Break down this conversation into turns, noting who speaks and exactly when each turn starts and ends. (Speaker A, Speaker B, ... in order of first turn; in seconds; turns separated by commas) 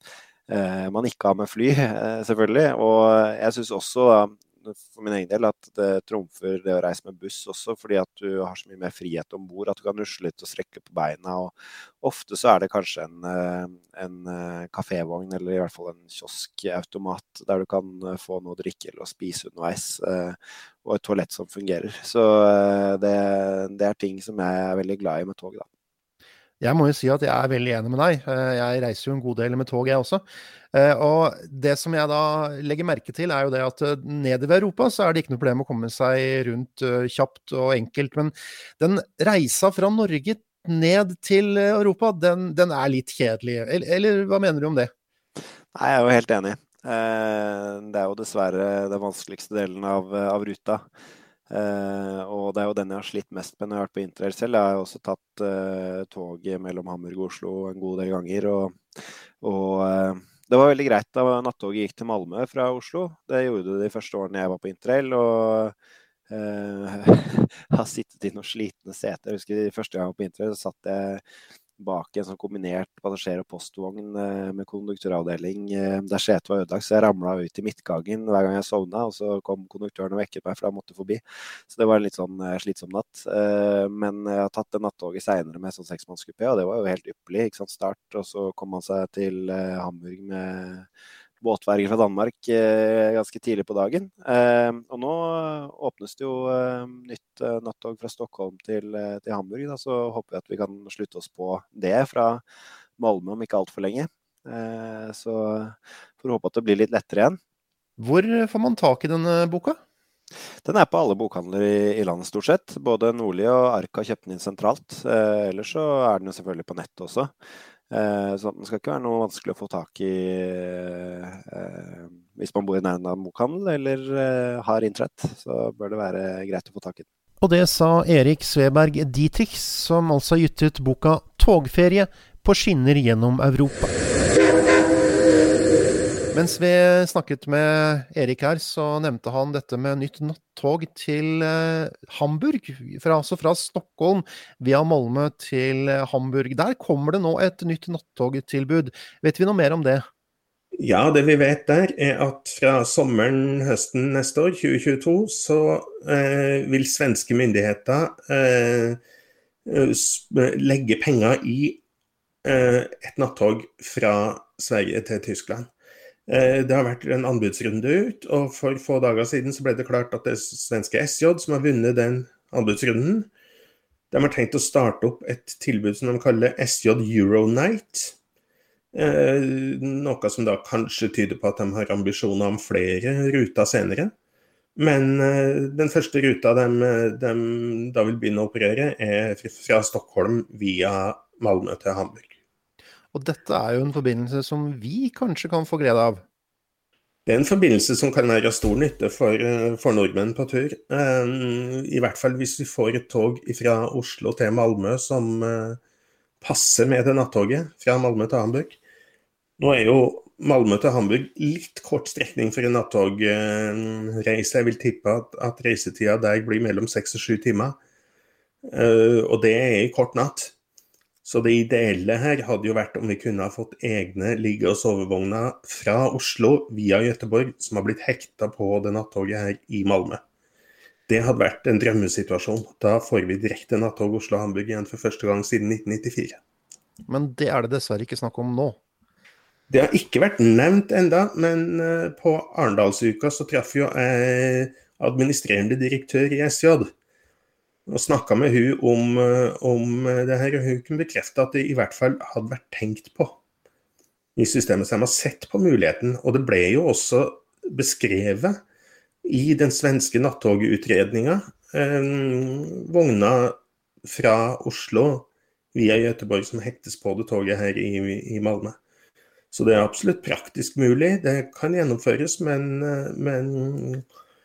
Speaker A: 0.5-25.6, Speaker B: 26.6-44.9, Speaker A: 45.7-50.8, Speaker A: 51.5-65.7, Speaker A: 66.3-71.2, Speaker A: 71.8-90.8, Speaker A: 91.4-102.4, Speaker A: 103.0-107.4, Speaker B: 108.0-109.8, Speaker A: 110.6-117.3, Speaker A: 117.9-127.0, Speaker B: 127.4-133.9, Speaker B: 136.3-150.1, Speaker C: 150.8-159.0, Speaker C: 159.6-161.8, Speaker C: 162.4-165.7, Speaker C: 166.3-173.3, Speaker C: 174.1-178.2, Speaker C: 178.9-184.1, Speaker C: 184.8-192.3, Speaker B: 193.1-196.2, Speaker C: 197.2-205.8, Speaker C: 206.4-208.8, Speaker C: 209.6-217.8, Speaker C: 218.6-220.5, Speaker C: 221.2-230.2, Speaker C: 231.1-236.4, Speaker B: 237.1-238.8, Speaker C: 239.7-246.9, Speaker C: 247.9-253.4, Speaker C: 254.3-258.6, Speaker C: 259.2-268.8, Speaker C: 269.5-274.0